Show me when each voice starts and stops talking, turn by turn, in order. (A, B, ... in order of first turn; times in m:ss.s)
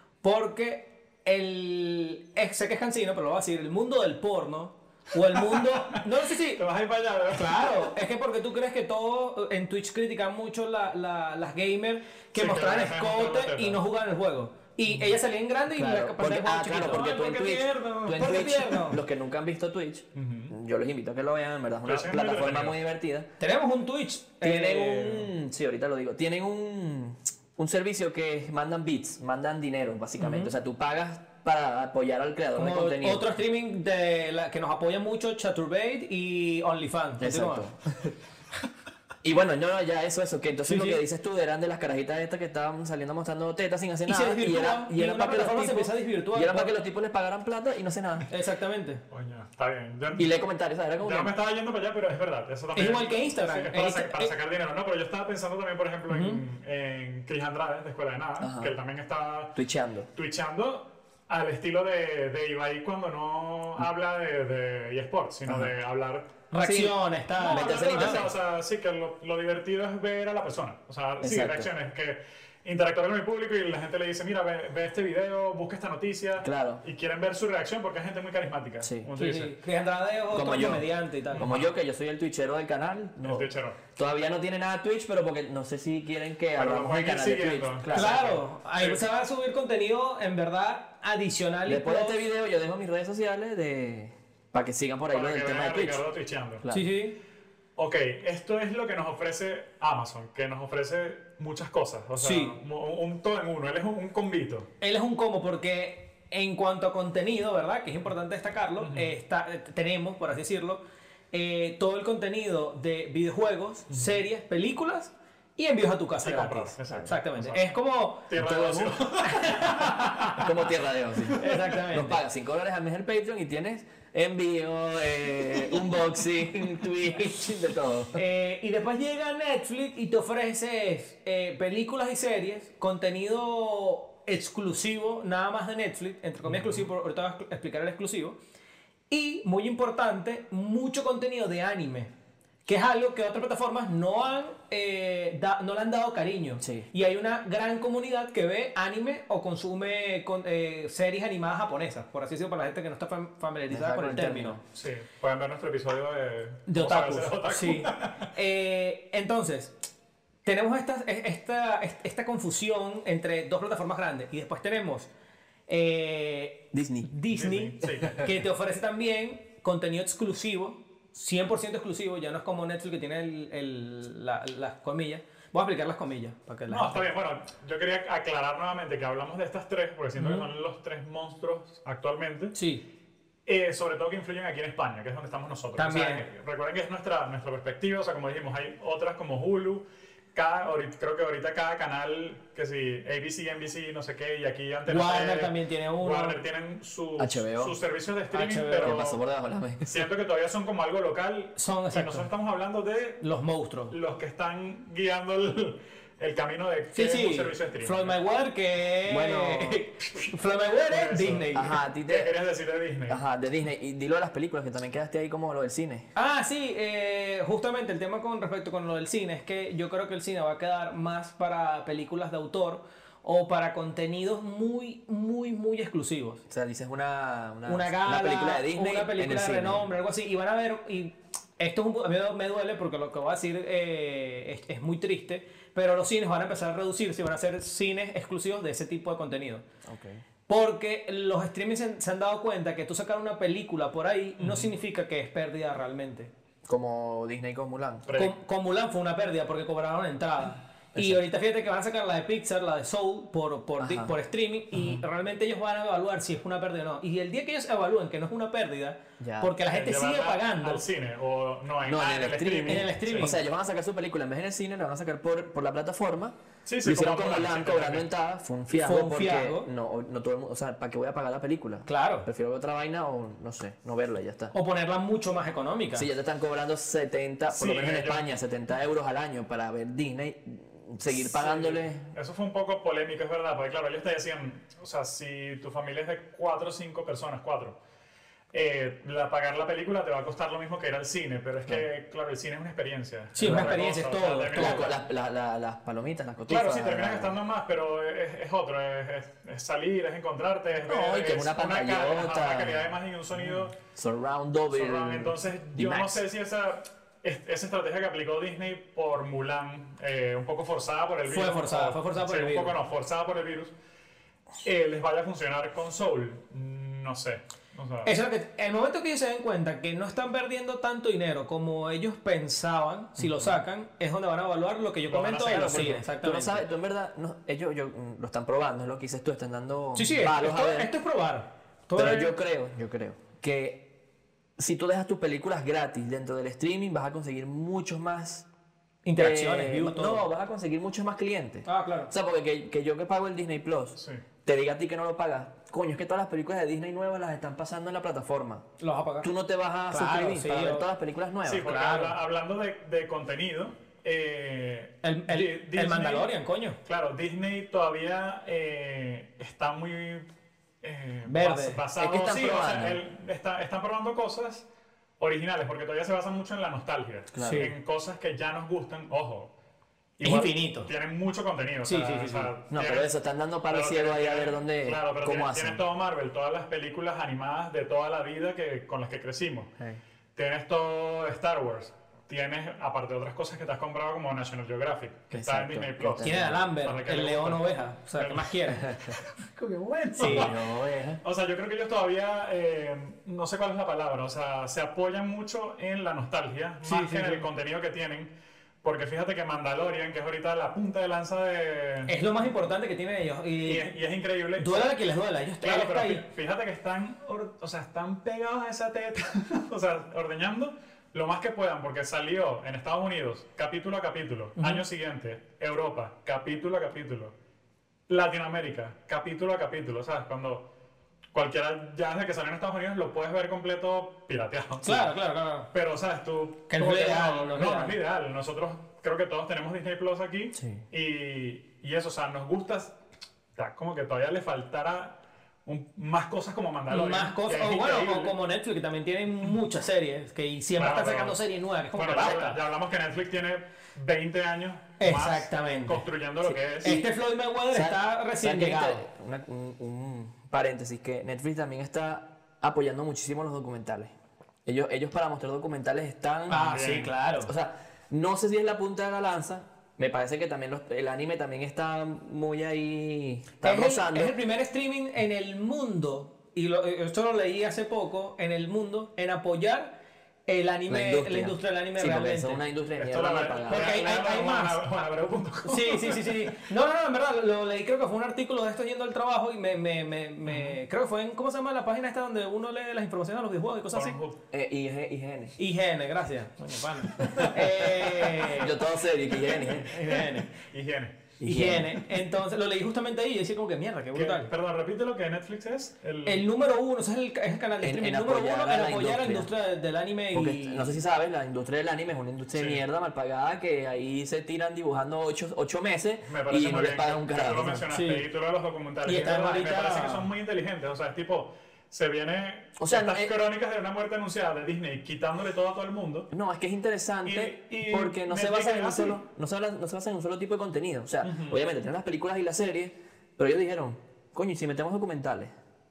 0:00.2-0:06.6 A
0:05.3-0:07.9 B
0:07.3-0:19.0 A
0:12.4-0:13.8 B
0:15.7-0:23.3 C
0:20.2-0:20.5 B
0:21.8-0:22.8 B
0:23.4-0:25.3 A
0:24.4-0:33.3 C
0:30.2-0:30.5 A
0:32.6-0:37.7 A
0:37.2-0:38.2 C
0:39.2-0:48.3 C
0:40.7-0:41.0 A
0:44.1-0:46.8 A
0:48.3-0:49.0 A
0:49.1-0:50.4 B
0:50.2-0:51.3 C
0:51.0-0:59.6 B
0:52.8-0:54.3 A
0:56.1-0:56.4 A
0:58.4-0:58.8 C
0:59.6-1:00.1 C
1:00.1-1:06.4 B
1:05.5-1:05.7 C
1:06.5-1:08.3 A
1:06.6-1:08.3 C
1:07.4-1:19.6 B
1:11.2-1:11.7 C
1:16.4-1:16.8 C
1:18.8-1:19.1 C
1:19.2-1:21.5 A
1:20.3-1:28.2 C
1:21.3-1:21.7 B
1:23.2-1:23.8 B
1:26.6-1:29.0 B
1:27.9-1:32.2 A
1:31.7-1:36.0 C
1:35.1-1:36.6 B
1:36.6-1:36.9 C
1:36.7-1:37.2 A
1:37.8-1:44.7 B
1:42.2-1:42.6 A
1:44.8-1:58.3 A
1:48.8-1:49.1 B
1:53.9-1:54.2 B
1:56.2-2:00.5 B
1:58.4-2:08.2 C
1:59.2-2:00.4 A
2:01.3-2:02.2 A
2:08.1-2:18.4 A
2:19.1-2:22.1 A
2:22.7-2:34.6 A
2:26.6-2:26.9 C
2:33.7-2:34.6 C
2:34.7-2:38.3 B
2:36.7-2:39.8 A
2:40.4-2:45.1 A
2:45.7-2:57.1 A
2:46.7-2:47.1 C
2:47.3-2:48.3 B
2:56.7-3:02.6 B
3:00.2-3:00.5 A
3:02.6-3:02.8 A
3:03.5-3:19.2 B
3:05.8-3:06.2 A
3:14.9-3:16.4 A
3:17.2-3:17.8 C
3:18.3-3:19.0 A
3:18.8-3:20.0 C
3:19.8-3:23.2 B
3:21.6-3:22.3 A
3:23.2-3:24.0 A
3:23.9-3:28.2 B
3:26.9-3:31.8 A
3:29.1-3:29.8 C
3:30.8-3:33.2 B
3:31.5-3:32.3 C
3:33.1-3:36.1 C
3:36.2-3:46.4 A
3:46.5-3:49.9 C
3:47.7-3:59.7 A
3:59.8-4:00.2 C
4:00.5-4:06.3 A
4:04.4-4:04.7 B
4:06.7-4:08.1 C
4:08.1-4:08.4 B
4:08.2-4:20.8 A
4:11.0-4:11.2 C
4:13.8-4:14.2 C
4:19.2-4:19.5 C
4:19.7-4:23.4 B
4:21.8-4:34.5 C
4:22.7-4:23.4 A
4:26.7-4:28.1 B
4:28.7-4:29.7 A
4:31.9-4:32.3 A
4:34.5-4:36.1 A
4:35.9-4:42.1 C
4:37.5-4:38.2 B
4:41.4-4:47.8 B
4:48.5-4:55.0 B
4:53.3-4:54.9 A
4:53.4-4:53.8 C
4:54.5-4:57.4 C
4:56.5-5:03.7 B
5:00.8-5:06.2 C
5:04.7-5:13.7 B
5:11.3-5:12.8 A
5:14.6-5:18.1 B
5:18.0-5:26.6 A
5:25.1-5:26.0 B
5:25.4-5:30.9 C
5:30.0-5:32.3 A
5:31.9-5:33.9 C
5:34.6-5:38.5 C
5:39.0-5:40.2 A
5:39.2-5:48.7 C
5:41.7-5:42.1 A
5:44.0-5:44.2 B
5:48.8-5:49.3 A
5:49.2-5:51.7 C
5:49.9-5:50.9 A
5:51.4-6:00.3 B
5:51.6-5:52.2 A
5:55.0-5:56.8 A
6:00.8-6:04.7 B
6:01.2-6:01.8 A
6:02.0-6:03.0 C
6:05.2-6:09.5 B
6:07.3-6:07.7 C
6:07.4-6:07.7 A
6:10.2-6:13.1 B
6:10.2-6:10.9 A
6:11.8-6:12.5 A
6:12.7-6:15.8 C
6:13.7-6:19.7 B
6:20.4-6:28.9 B
6:25.3-6:26.6 C
6:26.2-6:29.0 A
6:28.8-6:29.2 C
6:29.6-6:30.5 A
6:30.2-6:31.2 C
6:30.2-6:30.7 B
6:31.2-6:42.2 B
6:36.8-6:37.5 A
6:42.1-6:43.9 A
6:43.7-6:44.9 B
6:44.6-6:46.3 A
6:45.6-6:57.3 B
6:58.1-7:00.7 B
7:01.3-7:05.2 B
7:04.8-7:05.7 A
7:05.7-7:13.0 B
7:06.7-7:08.0 A
7:10.6-7:10.8 C
7:13.6-7:18.4 B
7:16.9-7:22.6 A
7:20.8-7:21.4 B
7:21.9-7:27.0 B
7:25.0-7:26.0 A
7:26.8-7:29.0 A
7:27.7-7:34.1 C
7:34.7-7:36.7 C
7:36.5-7:37.5 A
7:36.5-7:37.1 B
7:37.4-7:44.4 C
7:43.6-7:52.6 A
7:50.9-7:54.1 C
7:53.0-7:56.4 B
7:53.7-7:54.8 A
7:55.6-8:04.2 A
8:03.9-8:04.4 B
8:04.5-8:05.6 C
8:05.6-8:08.8 A
8:07.2-8:10.0 C
8:09.5-8:10.5 A
8:10.2-8:11.2 B
8:11.4-8:12.1 C
8:11.4-8:14.5 A
8:14.1-8:16.5 B
8:16.2-8:21.0 A
8:17.8-8:19.5 C
8:20.3-8:27.8 C
8:22.5-8:22.8 B
8:26.3-8:36.3 B
8:27.9-8:28.3 A
8:29.0-8:30.3 A
8:32.8-8:33.3 C
8:36.3-8:45.5 C
8:37.2-8:39.2 B
8:41.2-8:41.6 B